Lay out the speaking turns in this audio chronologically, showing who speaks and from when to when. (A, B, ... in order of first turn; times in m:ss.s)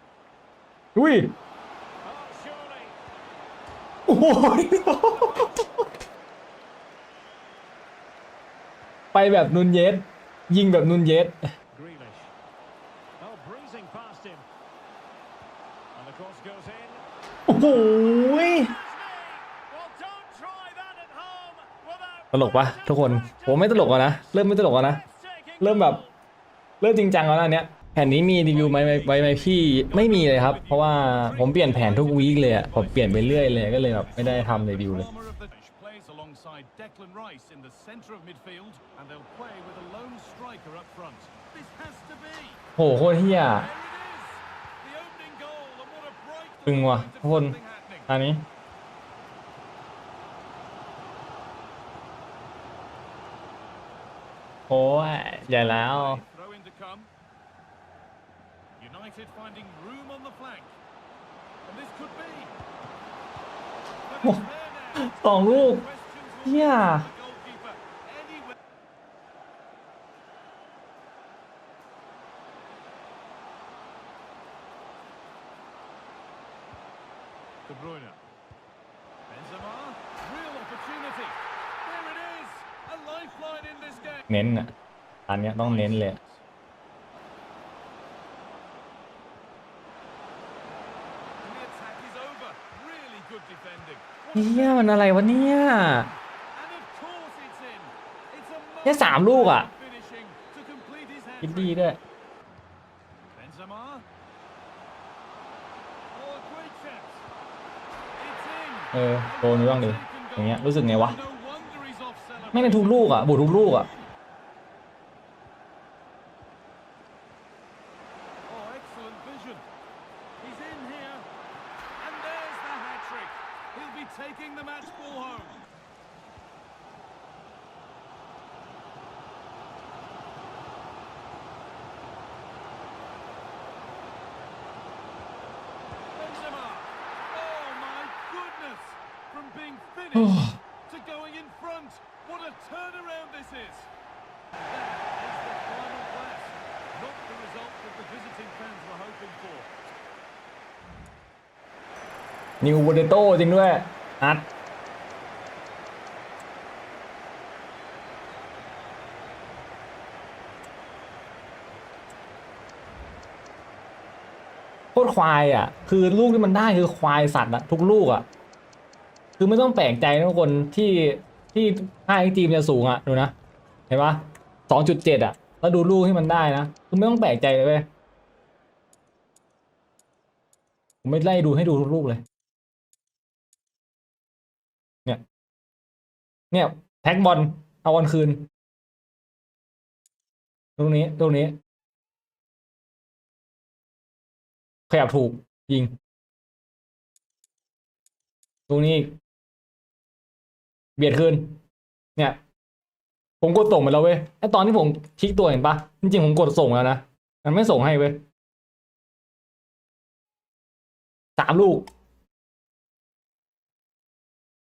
0:01.0-0:01.3 A
0:02.0-0:03.0 B
0:04.1-0:05.6 A
0:05.2-0:05.5 C
0:09.1-0:11.4 A
0:11.7-0:12.3 B
0:13.2-0:14.5 B
0:15.9-0:17.0 B
0:17.5-0:18.8 A
0:18.2-0:24.0 B
0:22.3-0:25.0 A
0:24.9-0:26.1 B
0:25.0-0:25.4 C
0:25.6-0:26.0 A
0:26.8-0:35.1 A
0:28.3-0:42.6 C
0:42.8-0:43.7 A
0:43.4-0:48.1 C
0:46.7-0:47.6 A
0:48.1-0:48.4 A
0:54.7-0:56.2 A
0:55.5-0:57.1 C
0:58.8-1:00.8 C
1:01.7-1:02.6 C
1:04.1-1:08.6 C
1:05.0-1:05.9 A
1:06.4-1:07.1 A
1:17.7-1:18.2 C
1:19.3-1:24.3 C
1:24.3-1:24.7 A
1:25.3-1:26.2 A
1:25.6-1:26.4 C
1:31.4-1:34.9 C
1:34.4-1:36.1 A
1:36.5-1:41.8 C
1:38.8-1:39.7 A
1:41.4-1:42.0 A
1:43.3-1:44.1 C
1:46.1-1:47.3 C
1:48.2-1:53.2 C
1:48.9-1:51.2 A
1:52.5-1:53.9 A
1:58.5-1:59.6 C
2:00.4-2:01.2 C
2:02.0-2:05.6 C
2:16.1-2:23.9 C
2:20.2-2:20.6 A
2:24.5-2:29.7 C
2:32.6-2:34.5 A
2:44.9-2:48.3 A
2:49.4-2:53.3 A
2:53.9-2:57.9 A
3:01.0-3:02.2 A
3:06.5-3:08.5 A
3:10.8-3:11.6 A
3:14.9-3:15.9 A
3:18.7-3:19.1 A
3:21.0-3:21.6 A
3:23.4-3:28.2 A
3:31.4-3:31.9 A